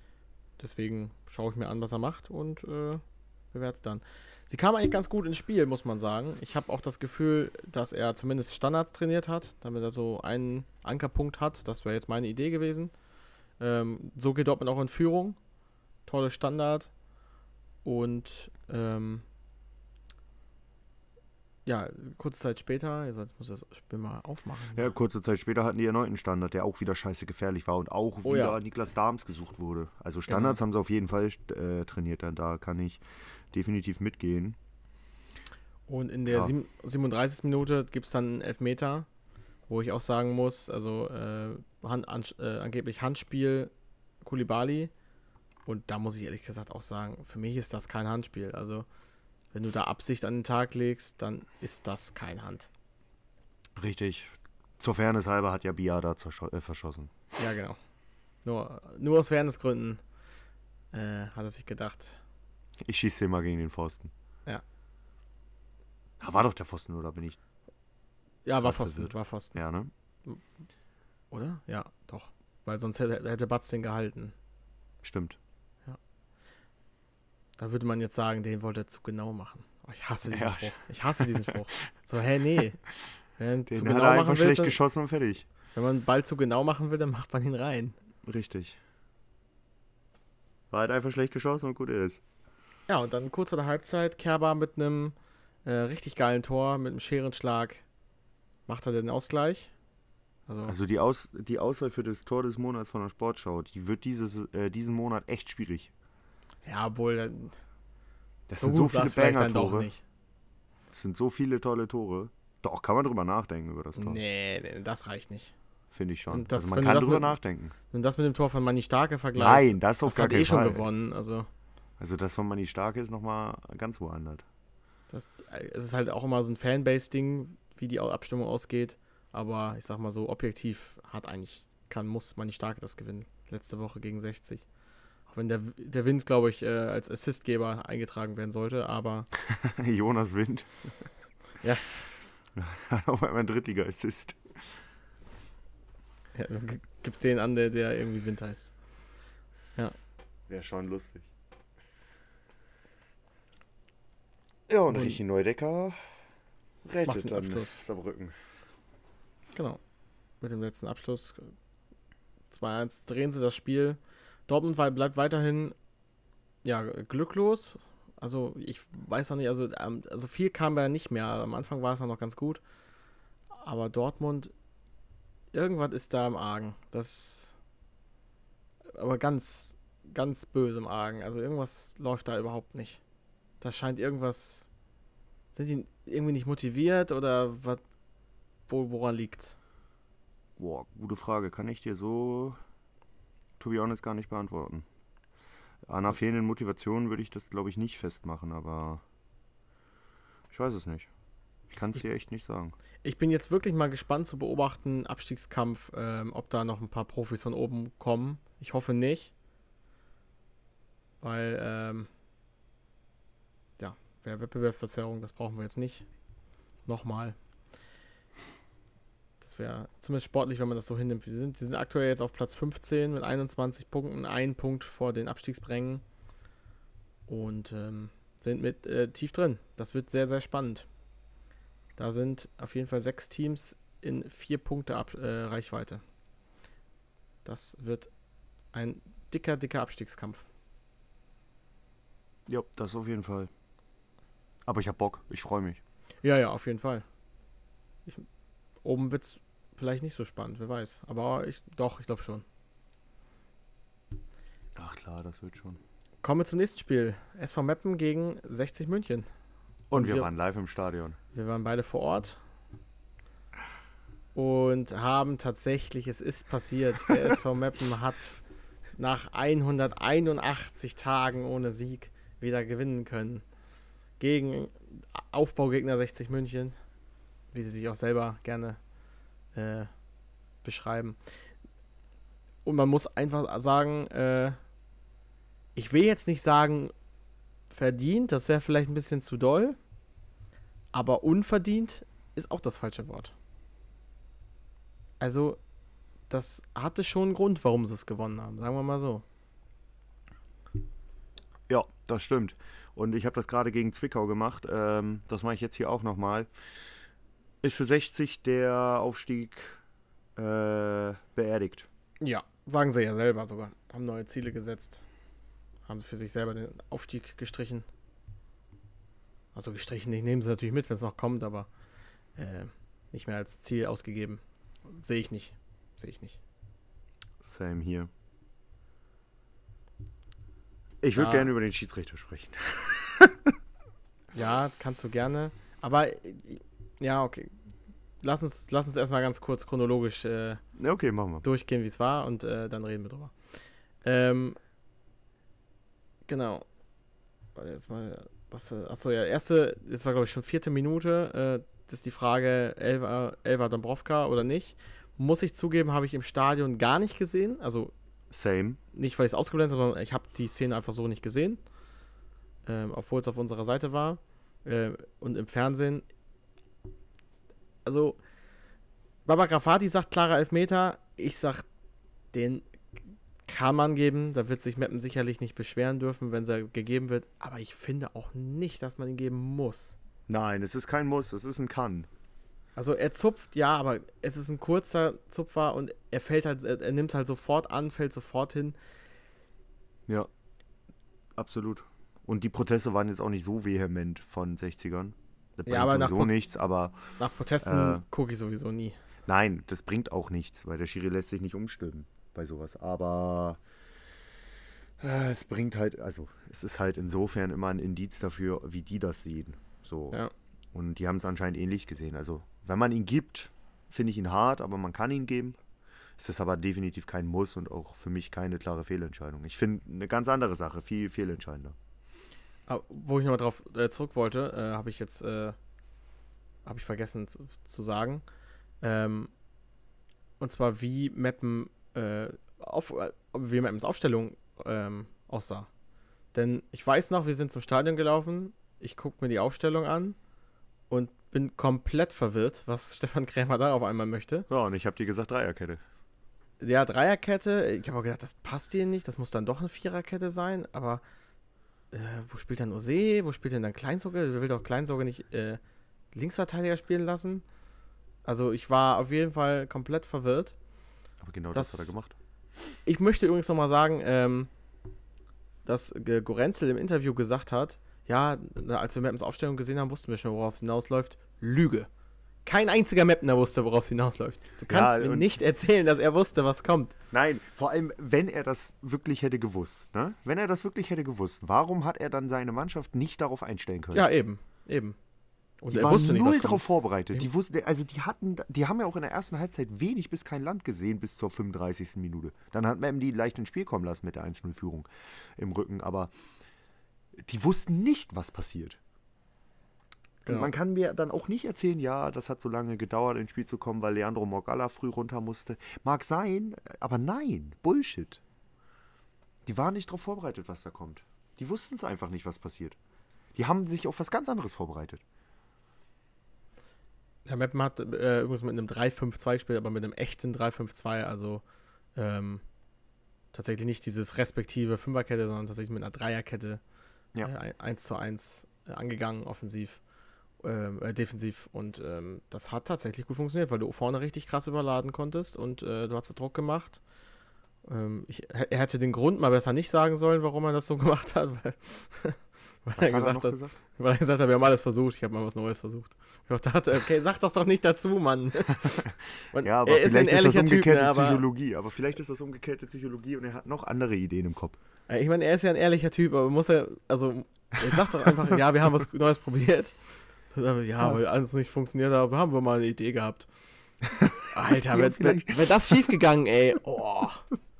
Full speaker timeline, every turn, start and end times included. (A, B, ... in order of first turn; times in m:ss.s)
0:00.6-0:12.9 A
0:13.6-0:15.4 A
0:16.0-0:16.9 A
0:17.8-0:19.2 A
0:21.6-0:24.9 A
0:24.7-0:34.6 B
0:28.2-0:28.6 A
0:30.3-0:30.6 A
0:35.9-0:39.1 A
0:39.7-0:43.7 A
0:44.2-0:44.9 A
0:45.6-0:48.8 A
0:49.5-0:52.7 A
0:53.8-0:57.1 B
0:57.4-0:57.8 A
0:58.4-1:00.0 A
1:00.9-1:02.2 A
1:02.8-1:04.1 B
1:06.2-1:07.4 B
1:08.4-1:09.6 A
1:08.6-1:09.9 B
1:11.3-1:14.3 A
1:15.0-1:15.4 B
1:17.6-1:22.8 A
1:20.3-1:21.7 B
1:23.4-1:24.8 A
1:23.7-1:25.4 B
1:25.7-1:27.9 A
1:28.2-1:28.8 B
1:30.7-1:32.2 B
1:32.9-1:37.8 A
1:38.7-1:39.7 A
1:40.5-1:40.7 A
1:40.6-1:45.9 B
1:46.6-1:47.6 A
1:48.5-1:49.9 B
1:48.6-1:50.0 A
1:50.9-1:54.2 B
1:53.9-1:55.5 A
1:55.9-1:57.7 B
1:56.3-1:57.4 A
1:57.9-2:01.5 A
1:59.4-2:00.9 B
2:02.0-2:04.4 B
2:05.1-2:14.6 A
2:15.3-2:19.3 A
2:19.5-2:21.1 B
2:22.5-2:24.6 B
2:26.3-2:28.7 A
2:30.5-2:31.3 B
2:34.7-2:36.0 B
2:34.9-2:35.2 A
2:36.8-2:38.4 B
2:37.0-2:37.8 A
2:39.5-2:39.8 A
2:40.4-2:41.5 A
2:42.5-2:45.7 A
2:46.6-2:52.6 A
2:53.5-2:54.5 A
2:55.5-2:57.6 A
2:58.9-3:03.0 A
3:03.6-3:04.7 A
3:05.5-3:07.8 A
3:08.7-3:09.6 A
3:10.6-3:12.6 B
3:13.6-3:14.8 B
3:15.8-3:19.0 B
3:20.5-3:21.1 B
3:21.7-3:22.7 B
3:23.0-3:29.3 A
3:31.2-3:32.1 A
3:33.8-3:36.0 A
3:36.8-3:37.4 A
3:39.4-3:46.0 A
3:47.3-3:50.9 A
3:52.0-3:56.0 A
3:57.4-3:58.1 A
3:58.7-4:00.4 A
4:02.5-4:03.5 B
4:04.6-4:05.8 B
4:06.2-4:07.0 A
4:08.8-4:12.4 A
4:14.8-4:15.8 B
4:16.2-4:19.3 A
4:19.9-4:21.2 B
4:19.9-4:20.3 A
4:21.3-4:22.4 A
4:24.3-4:28.4 A
4:28.9-4:33.4 A
4:34.2-4:36.8 A
4:37.5-4:38.8 A
4:39.5-4:39.9 A
4:40.6-4:41.2 A
4:42.6-4:44.6 A
4:45.7-4:46.9 A
4:47.7-4:49.8 A
4:50.9-4:53.3 A
4:55.2-4:55.6 A
4:56.3-4:59.2 A
5:01.7-5:06.5 B
5:07.6-5:09.8 B
5:10.4-5:11.9 B
5:12.2-5:15.0 A
5:15.8-5:17.8 A
5:19.5-5:21.7 A
5:22.4-5:26.4 A
5:27.4-5:28.1 B
5:31.0-5:33.5 B
5:31.2-5:31.5 A
5:34.3-5:37.5 A
5:38.2-5:40.6 A
5:40.8-5:41.4 B
5:41.4-5:43.3 A
5:44.0-5:44.6 A
5:46.3-5:46.6 A
5:47.6-5:57.9 A
5:58.3-5:58.8 B
5:58.9-6:01.6 A
6:02.6-6:06.0 A
6:07.8-6:08.2 A
6:09.2-6:11.6 A
6:12.3-6:12.7 A
6:13.4-6:20.0 A
6:20.3-6:22.1 B
6:22.8-6:28.8 A
6:31.4-6:38.0 B
6:35.7-6:36.4 A
6:37.2-6:39.0 A
6:39.2-6:43.6 B
6:45.0-6:50.2 B
6:50.7-6:55.6 B
6:56.2-7:01.8 B
7:02.7-7:05.6 A
7:06.6-7:08.2 A
7:08.8-7:09.3 A
7:10.4-7:15.7 A
7:16.3-7:20.2 A
7:20.9-7:24.5 A
7:24.5-7:25.8 B
7:26.6-7:31.0 A
7:31.9-7:35.6 A
7:36.1-7:37.4 A
7:38.2-7:40.6 A
7:41.2-7:42.1 B
7:41.5-7:41.9 A
7:42.8-7:44.5 A
7:45.6-7:51.9 A
7:52.4-7:56.9 A
7:54.7-7:55.3 B
7:57.1-8:04.1 B
8:03.9-8:05.0 A
8:05.6-8:07.3 A
8:05.7-8:16.1 B
8:17.2-8:18.8 B
8:20.2-8:20.5 A
8:20.2-8:28.2 B
8:29.4-8:32.8 B
8:33.3-8:35.0 B
8:37.2-8:41.4 A
8:41.9-8:42.4 A
8:43.3-8:46.6 A
8:47.2-8:49.8 A
8:50.4-8:56.8 A
8:57.6-9:11.2 A
9:02.8-9:03.5 B
9:08.7-9:14.6 B
9:14.9-9:19.8 A
9:17.6-9:18.1 B
9:20.3-9:23.3 A
9:23.9-9:26.0 B
9:24.3-9:27.2 A